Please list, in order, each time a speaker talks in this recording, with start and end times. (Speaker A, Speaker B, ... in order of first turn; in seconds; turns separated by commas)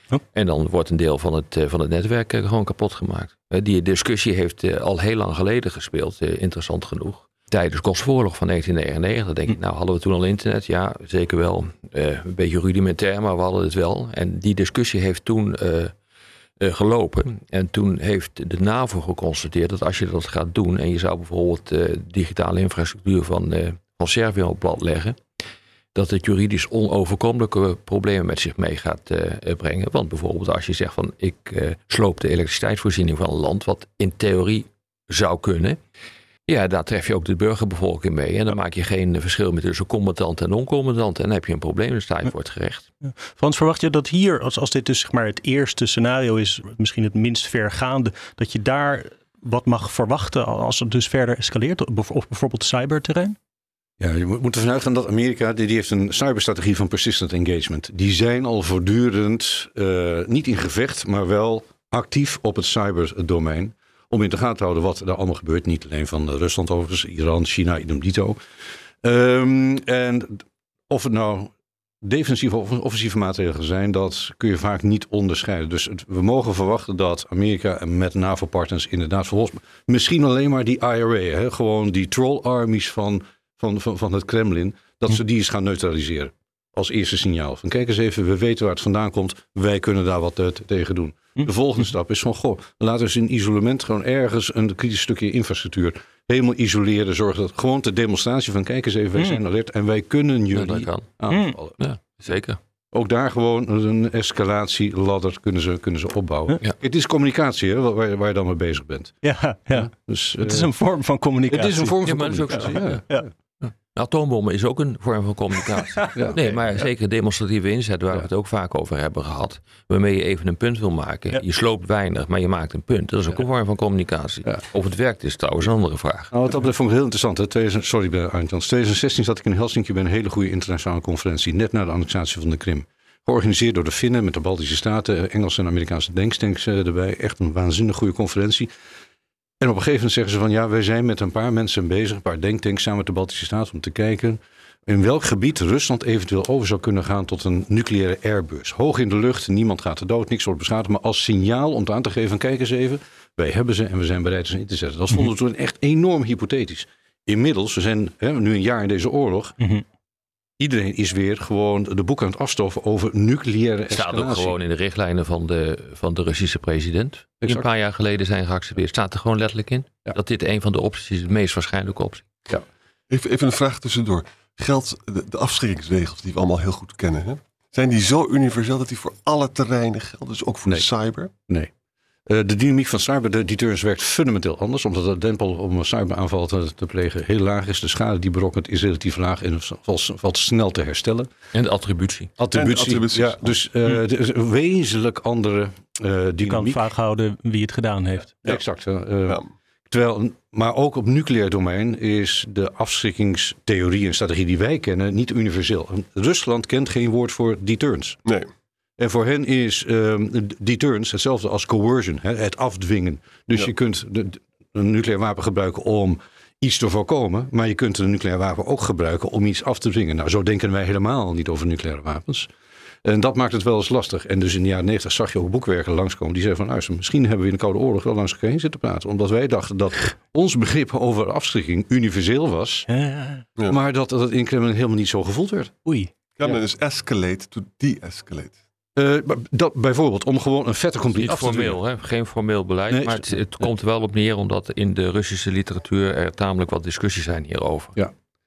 Speaker A: 0.3-15.9, Speaker A: 16.6-25.2, Speaker A: 25.9-35.8, Speaker A: 36.5-42.9, Speaker B: 43.2-53.4, Speaker C: 54.0-68.4, Speaker C: 69.0-101.8, Speaker A: 100.5-101.2, Speaker B: 101.3-101.6, Speaker A: 101.8-102.6, Speaker C: 102.9-109.2, Speaker B: 109.2-112.0, Speaker C: 109.7-110.7, Speaker C: 111.5-113.2, Speaker A: 112.0-113.0, Speaker A: 113.6-126.3, Speaker C: 116.2-116.6, Speaker C: 126.3-138.7, Speaker C: 139.6-159.6, Speaker C: 160.6-164.5, Speaker A: 163.9-172.2, Speaker D: 173.1-181.3, Speaker C: 182.3-191.3, Speaker A: 191.5-192.3, Speaker C: 192.4-196.8, Speaker D: 192.5-193.6, Speaker B: 196.4-198.6, Speaker C: 198.4-208.2, Speaker C: 209.0-222.5, Speaker C: 223.1-232.9, Speaker B: 232.9-233.4, Speaker C: 233.7-235.7, Speaker B: 235.8-236.1, Speaker D: 236.4-238.6, Speaker C: 239.0-241.8, Speaker A: 241.2-247.9, Speaker C: 242.9-243.7